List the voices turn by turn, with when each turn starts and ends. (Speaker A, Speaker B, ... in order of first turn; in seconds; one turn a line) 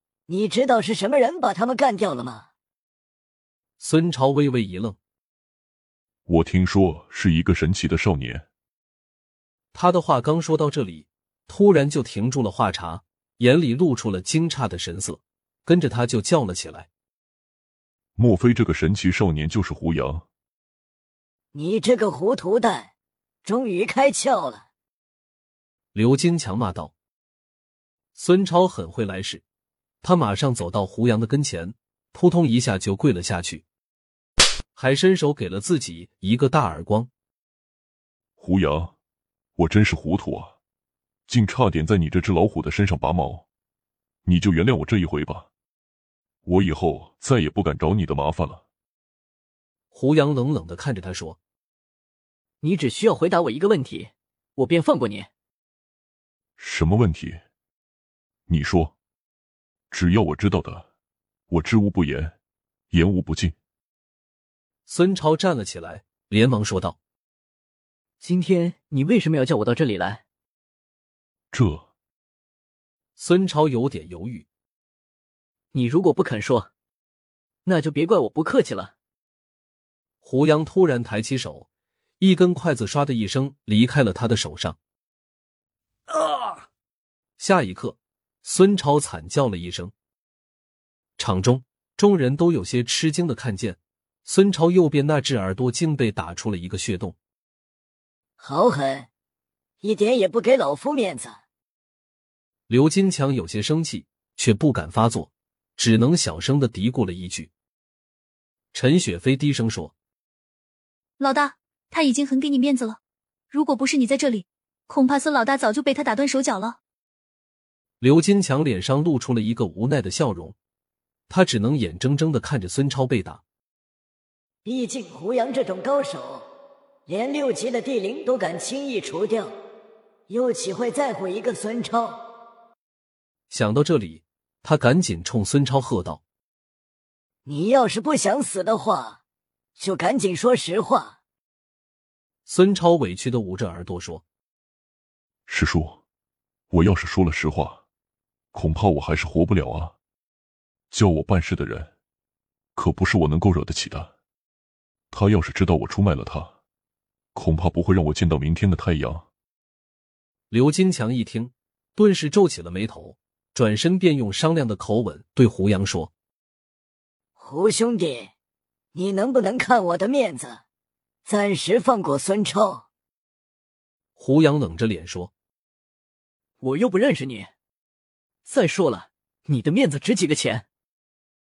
Speaker A: 0.3-2.5
Speaker B: 3.8-5.0
Speaker C: 6.3-8.4
Speaker B: 9.7-16.9
Speaker C: 18.1-20.2
Speaker A: 21.5-22.9
Speaker A: 23.4-24.6
Speaker B: 25.9-26.9
Speaker B: 28.1-29.4
Speaker B: 30.0-33.6
Speaker B: 34.7-37.1
Speaker C: 38.4-38.9
Speaker C: 39.6-40.5
Speaker C: 41.3-43.4
Speaker C: 44.2-45.5
Speaker C: 46.4-48.6
Speaker B: 49.9-51.4
Speaker D: 52.6-55.3
Speaker C: 56.6-57.4
Speaker C: 58.5-58.9
Speaker C: 59.9-60.9
Speaker C: 61.5-62.3
Speaker C: 62.9-63.5
Speaker B: 64.8-67.0
Speaker D: 68.2-70.2
Speaker C: 71.5-71.9
Speaker B: 73.2-74.5
Speaker D: 75.7-76.7
Speaker D: 77.6-78.9
Speaker B: 80.2-81.7
Speaker B: 82.2-84.8
Speaker D: 86.1-86.4
Speaker B: 87.4-89.9
Speaker B: 91.2-97.2
Speaker A: 98.4-99.1
Speaker A: 99.8-101.4
Speaker B: 102.7-107.5
Speaker B: 108.7-109.9
Speaker E: 111.2-113.0
Speaker E: 113.5-116.8
Speaker B: 118.0-120.5
Speaker B: 121.3-123.4
Speaker A: 124.6-126.4
Speaker A: 127.1-129.5
Speaker A: 130.3-132.2
Speaker B: 133.5-136.2
Speaker A: 137.4-139.2
Speaker A: 139.8-141.2
Speaker B: 142.4-144.2
Speaker C: 145.5-146.0
Speaker C: 146.7-147.8
Speaker C: 148.5-149.9
Speaker C: 150.9-151.9
Speaker C: 152.8-154.1
Speaker C: 155.1-156.5
Speaker C: 157.3-159.3
Speaker B: 160.5-166.1
Speaker A: 167.4-168.3
Speaker A: 168.9-170.6
Speaker A: 171.2-172.8
Speaker B: 174.2-175.3
Speaker D: 176.6-177.5
Speaker D: 178.4-180.6